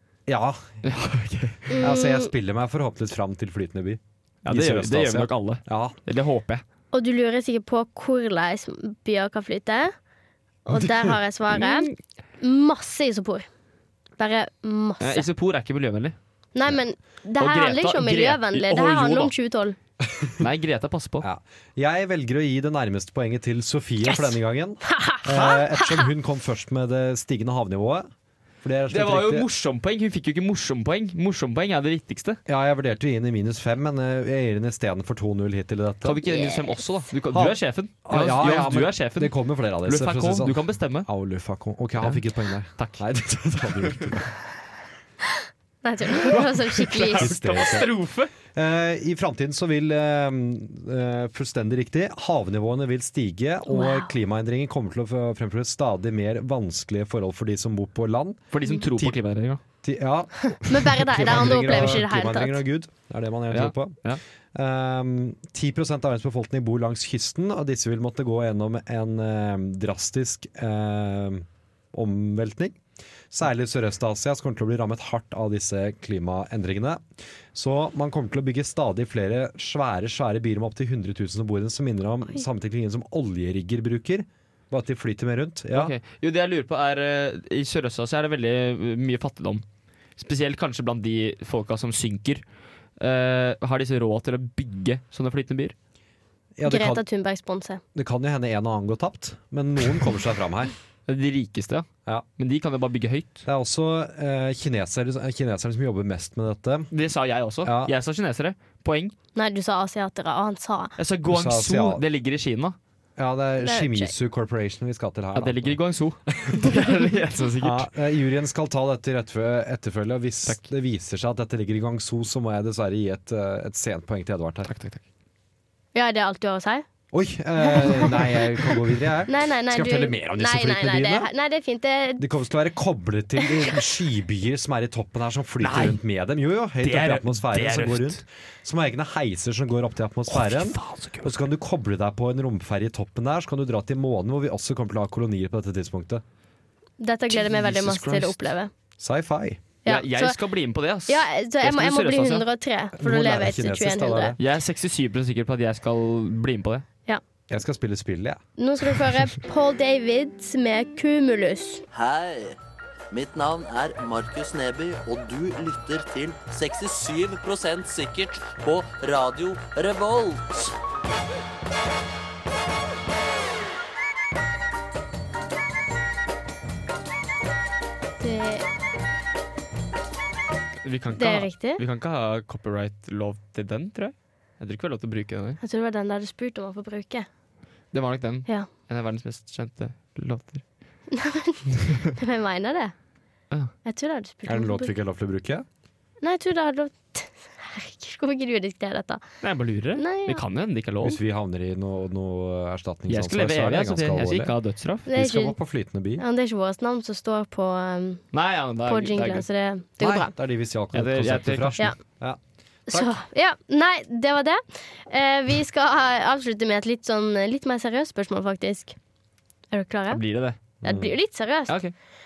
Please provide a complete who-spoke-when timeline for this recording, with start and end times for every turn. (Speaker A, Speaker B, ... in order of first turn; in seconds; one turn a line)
Speaker A: 0.3-0.8
Speaker B: 0.8-1.7
Speaker C: 1.7-2.3
Speaker A: 1.8-6.0
Speaker B: 4.4-6.6
Speaker C: 6.9-9.9
Speaker C: 10.7-11.9
Speaker B: 11.5-11.9
Speaker C: 12.4-13.5
Speaker C: 14.2-15.3
Speaker B: 15.0-16.1
Speaker C: 16.5-19.8
Speaker B: 17.4-19.3
Speaker A: 20.1-20.3
Speaker B: 20.4-21.3
Speaker A: 21.2-28.1
Speaker C: 24.1-24.3
Speaker C: 24.9-26.1
Speaker A: 28.6-29.5
Speaker B: 28.9-32.4
Speaker A: 32.5-36.3
Speaker B: 36.0-41.1
Speaker A: 37.3-44.3
Speaker B: 42.8-43.0
Speaker C: 45.8-47.3
Speaker B: 46.1-48.3
Speaker A: 47.2-47.9
Speaker A: 48.5-59.2
Speaker C: 53.7-54.1
Speaker B: 58.5-59.6
Speaker A: 59.8-64.0
Speaker C: 60.5-62.6
Speaker B: 61.7-62.0
Speaker B: 63.5-64.2
Speaker A: 64.5-72.8
Speaker A: 73.3-77.0
Speaker A: 77.5-85.9
Speaker B: 85.7-89.6
Speaker B: 90.2-92.4
Speaker B: 93.0-95.7
Speaker A: 96.6-97.0
Speaker C: 96.7-97.8
Speaker A: 97.9-100.7
Speaker B: 101.1-101.9
Speaker B: 102.4-103.4
Speaker A: 103.5-106.9
Speaker B: 106.9-109.1
Speaker A: 107.6-107.9
Speaker C: 109.3-110.9
Speaker B: 111.0-112.8
Speaker A: 111.3-112.0
Speaker A: 113.2-115.8
Speaker C: 113.6-114.1
Speaker B: 115.3-117.9
Speaker A: 116.3-116.7
Speaker A: 117.6-124.7
Speaker B: 124.7-125.0
Speaker C: 125.9-126.8
Speaker A: 127.1-131.3
Speaker C: 127.6-128.7
Speaker C: 129.3-132.2
Speaker A: 132.2-146.2
Speaker B: 135.6-136.0
Speaker B: 136.8-138.2
Speaker B: 140.3-141.4
Speaker C: 147.0-148.7
Speaker B: 147.3-148.4
Speaker A: 149.0-149.6
Speaker C: 149.8-150.4
Speaker B: 149.8-152.5
Speaker C: 151.1-154.4
Speaker A: 153.0-154.3
Speaker B: 154.4-156.8
Speaker A: 157.5-158.4
Speaker C: 158.6-161.8
Speaker D: 161.9-162.6
Speaker D: 163.1-170.7
Speaker C: 178.2-178.6
Speaker B: 180.8-185.6
Speaker C: 181.2-181.8
Speaker C: 185.6-187.2
Speaker B: 187.9-190.6
Speaker C: 191.1-192.9
Speaker C: 193.8-194.9
Speaker A: 194.5-195.6
Speaker C: 196.2-199.2
Speaker B: 199.4-201.2
Speaker C: 200.0-200.4
Speaker A: 201.0-204.5
Speaker B: 203.1-205.1
Speaker C: 205.1-205.6
Speaker A: 205.1-206.2
Speaker C: 206.2-208.2
Speaker B: 208.3-209.4
Speaker C: 208.8-210.3
Speaker A: 210.0-212.4
Speaker B: 210.9-211.8
Speaker C: 212.9-218.9
Speaker C: 219.7-220.2
Speaker B: 220.1-220.6
Speaker C: 220.8-221.8
Speaker A: 220.8-221.1
Speaker B: 221.7-221.9